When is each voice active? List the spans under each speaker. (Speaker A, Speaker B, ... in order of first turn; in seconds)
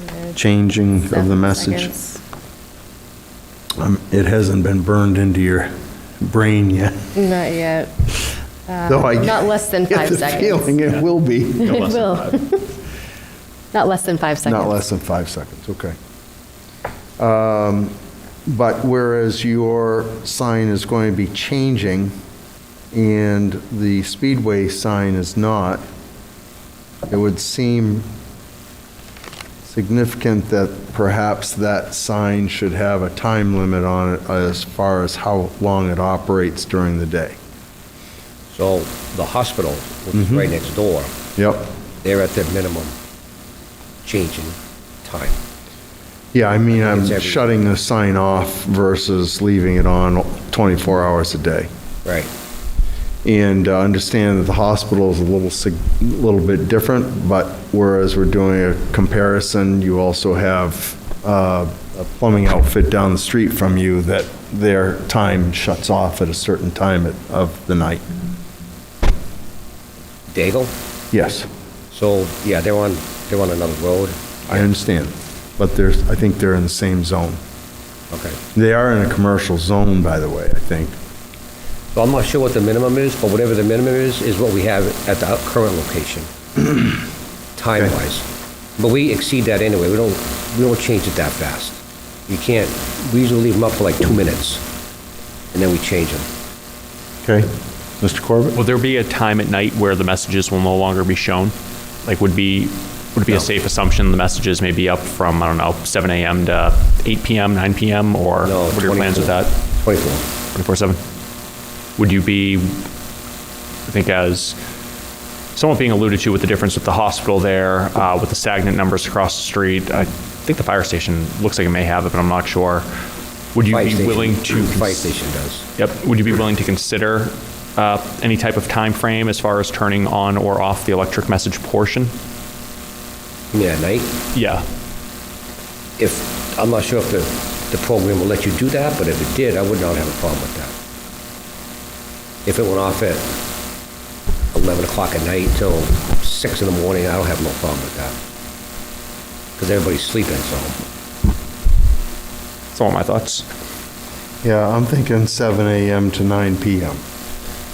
Speaker A: 0.4-2.0, 3.8-7.2, 8.9-11.9, 14.4-16.0, 17.2-17.9, 18.5-22.1, 22.9-25.8, 27.1-28.1, 29.6-37.4, 40.1-40.4, 41.4-41.7, 46.3-51.7, 53.2-68.0, 71.1-71.5, 74.5-77.4, 78.5-81.0, 97.2-97.5, 98.0-98.6, 154.4-157.0
Speaker B: 1.1-1.9, 7.2-7.9, 8.8-10.5, 13.7-14.7
Speaker C: 11.6-12.5, 98.5-101.5, 102.0-109.6, 110.5-111.0, 112.0-112.8, 113.9-114.6, 115.5-122.9, 123.5-125.1, 125.8-132.2, 134.3-134.6, 152.7-153.4
Speaker D: 38.5-41.1, 42.0-43.0, 44.0-45.4, 46.7-47.5, 52.0-52.3, 70.3-70.7, 71.9-74.7, 78.1-78.4, 81.9-86.3, 87.6-88.2, 88.8-94.6, 95.5-96.3, 108.4-110.3, 123.7-125.7, 133.5-134.2, 136.0-140.7, 142.4-143.4, 144.5-148.2, 149.6-150.8